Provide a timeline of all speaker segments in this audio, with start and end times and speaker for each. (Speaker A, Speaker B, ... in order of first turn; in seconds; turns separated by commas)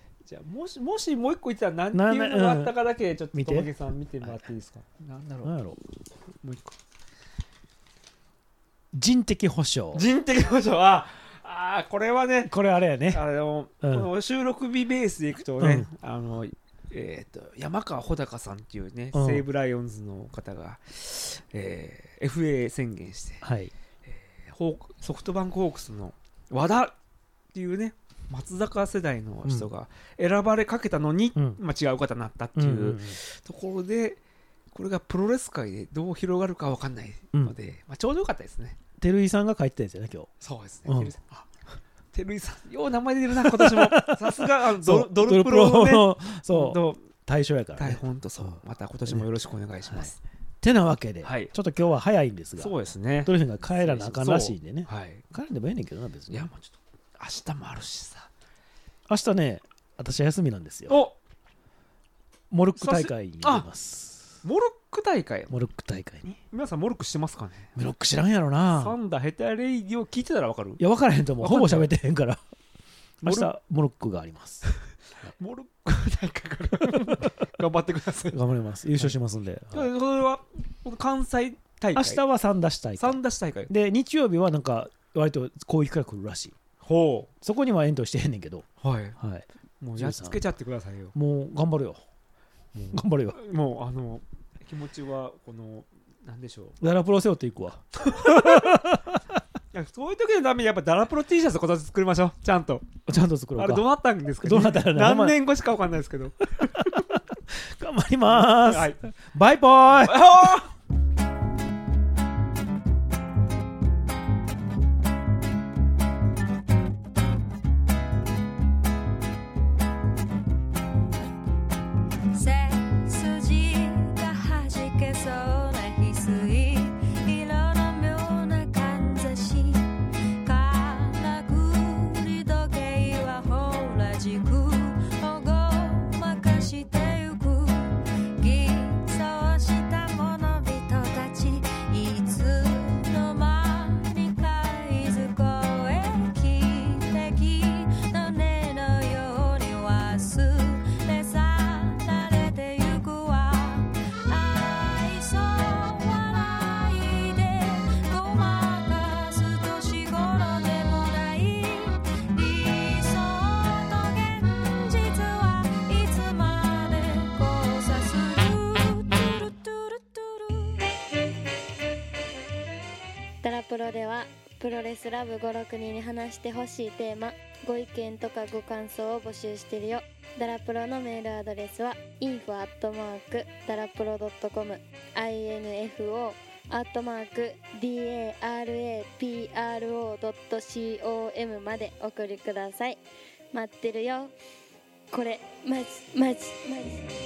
Speaker A: 0.2-5.5, Speaker B: 1.9-2.7, Speaker B: 3.3-3.7, Speaker B: 5.4-5.8, Speaker A: 6.4-6.7, Speaker B: 8.9-10.0, Speaker A: 9.9-12.5, Speaker B: 12.4-13.2, Speaker A: 13.1-23.4, Speaker B: 13.8-14.1, Speaker B: 15.6-15.9, Speaker B: 19.1-19.4, Speaker B: 23.4-23.7, Speaker A: 24.0-26.9, Speaker A: 27.5-34.2, Speaker B: 31.4-31.6, Speaker B: 32.5-33.2, Speaker A: 34.7-38.8, Speaker B: 39.0-40.3, Speaker A: 40.4-41.5, Speaker B: 40.9-41.1, Speaker A: 42.1-47.0, Speaker B: 43.4-48.0, Speaker A: 47.8-50.2, Speaker B: 50.6-56.5, Speaker A: 51.2-51.5, Speaker A: 52.6-55.2, Speaker A: 56.3-58.3, Speaker B: 59.1-61.0, Speaker A: 60.9-61.1, Speaker B: 62.5-64.3, Speaker A: 62.8-63.7, Speaker A: 64.4-65.6, Speaker B: 65.5-66.4, Speaker A: 66.5-67.7, Speaker B: 67.8-69.0, Speaker A: 68.7-70.8, Speaker B: 70.8-72.4, Speaker A: 71.4-71.9, Speaker B: 73.2-74.6, Speaker A: 73.2-73.5, Speaker A: 75.2-78.4, Speaker B: 78.3-79.9, Speaker A: 79.7-82.2, Speaker B: 81.9-86.5, Speaker A: 83.0-83.7, Speaker A: 86.8-87.3, Speaker B: 87.4-88.7, Speaker A: 88.8-89.2, Speaker B: 89.2-90.4, Speaker A: 89.8-91.1, Speaker B: 91.1-92.0, Speaker A: 92.7-96.8, Speaker B: 92.9-93.4, Speaker B: 96.8-99.2, Speaker A: 98.0-98.9, Speaker A: 99.7-102.8, Speaker B: 103.0-103.9, Speaker A: 103.5-107.1, Speaker B: 104.4-105.4, Speaker B: 106.7-110.6, Speaker A: 108.3-109.0, Speaker A: 110.0-110.7, Speaker C: 122.3-129.9, Speaker C: 130.4-170.9, Speaker D: 173.4-193.0, Speaker D: 193.5-194.3, Speaker D: 195.1-197.1